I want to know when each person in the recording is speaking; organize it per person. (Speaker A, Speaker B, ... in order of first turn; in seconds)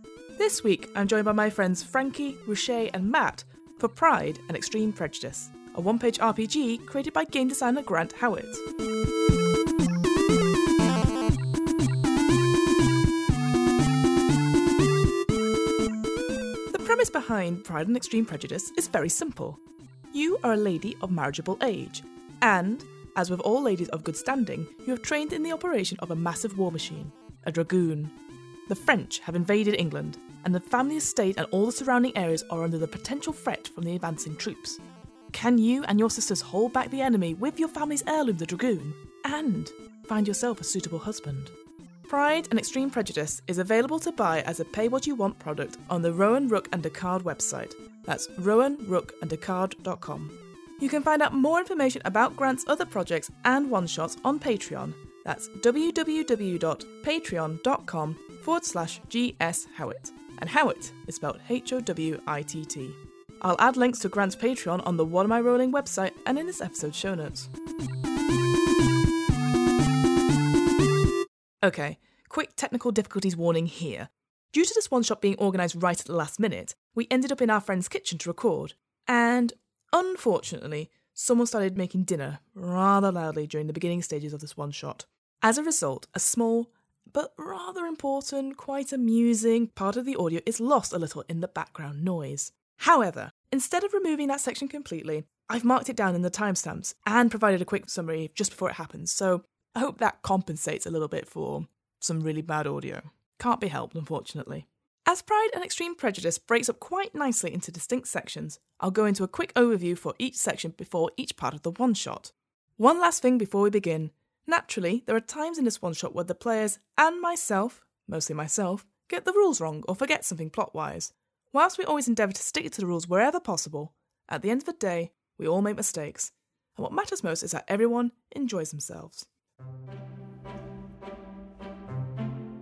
Speaker A: 0.4-8.6, 16.7-19.6, 20.1-28.1, 28.7-34.8, 35.3-41.5, 42.1-67.5, 71.6-129.3